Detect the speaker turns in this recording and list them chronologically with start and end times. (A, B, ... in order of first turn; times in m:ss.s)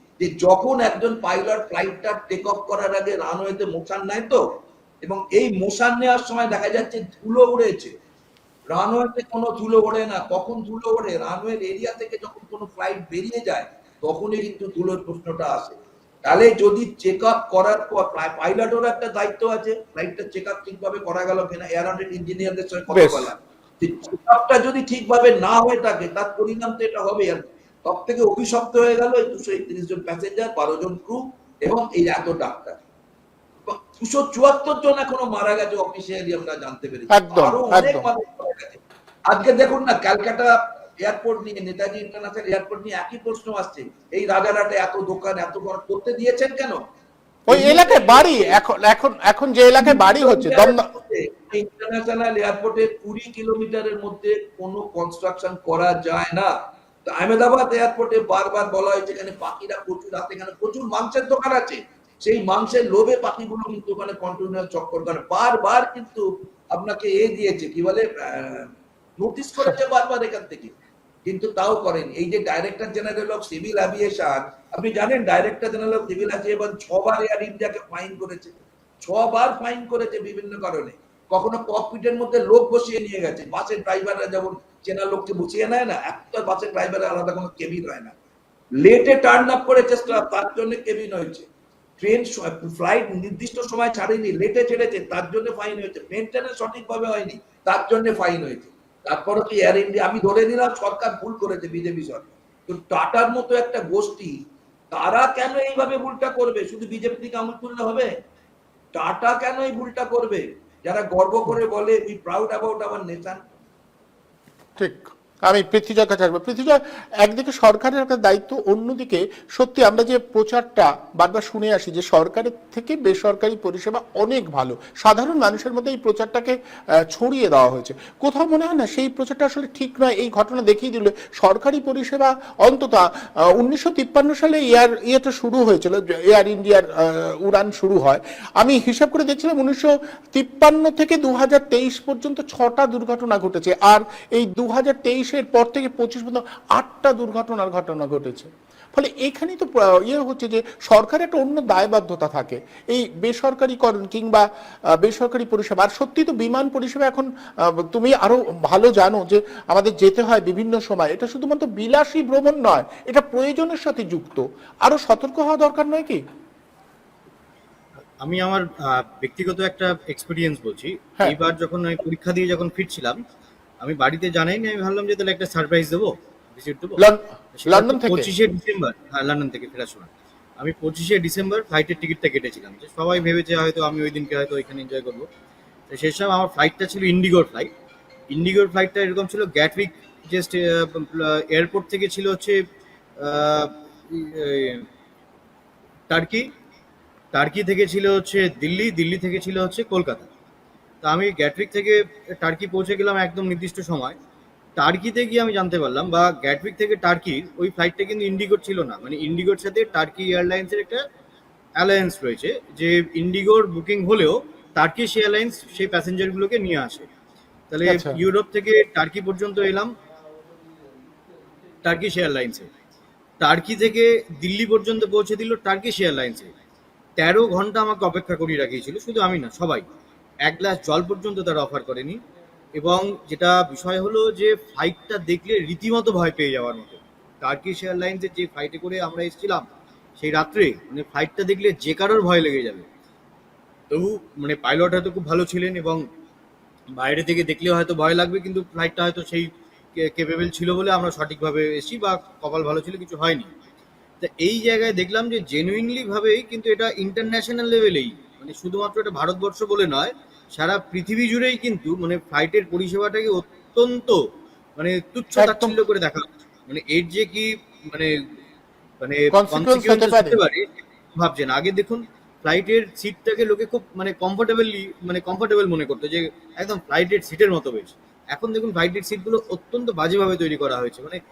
0:00.2-0:04.4 A
0:05.0-0:07.9 A
0:08.7-0:32.8 A
0:22.9-0:23.3 B
0:33.7-0:46.8 A
0:37.1-0:38.1 B
0:47.5-0:48.6 A
0:47.5-0:50.9 B
0:49.8-0:56.5 A
0:57.0-1:08.6 A
1:09.2-1:10.7 A
1:11.3-1:28.1 A
1:28.8-1:31.5 A
1:32.0-1:44.3 A
1:44.9-1:48.1 A
1:48.9-1:53.4 A
1:54.8-2:37.3 B
2:37.8-2:46.2 B
2:48.2-2:53.2 C
2:53.8-2:57.0 C
2:57.0-2:58.3 B
2:57.6-3:00.1 C
3:00.6-3:05.2 C
3:05.9-3:07.7 C
3:08.3-3:12.6 C
3:13.2-3:14.8 C
3:16.1-3:16.5 C
3:17.3-3:20.3 C
3:21.0-3:24.2 C
3:24.8-3:31.0 C
3:31.8-3:37.1 C
3:37.7-3:39.9 C
3:37.8-3:38.2 B
3:41.8-3:42.7 C
3:43.4-3:46.5 C
3:47.2-3:49.8 C
3:50.4-3:52.2 C
3:52.8-3:59.7 C
4:00.2-4:02.8 C
4:03.9-4:06.0 C
4:07.0-4:09.5 C
4:10.0-4:13.5 C
4:14.2-4:24.2 C
4:24.8-4:28.1 C
4:25.4-4:25.8 B
4:29.0-4:41.2 C
4:29.3-4:30.4 B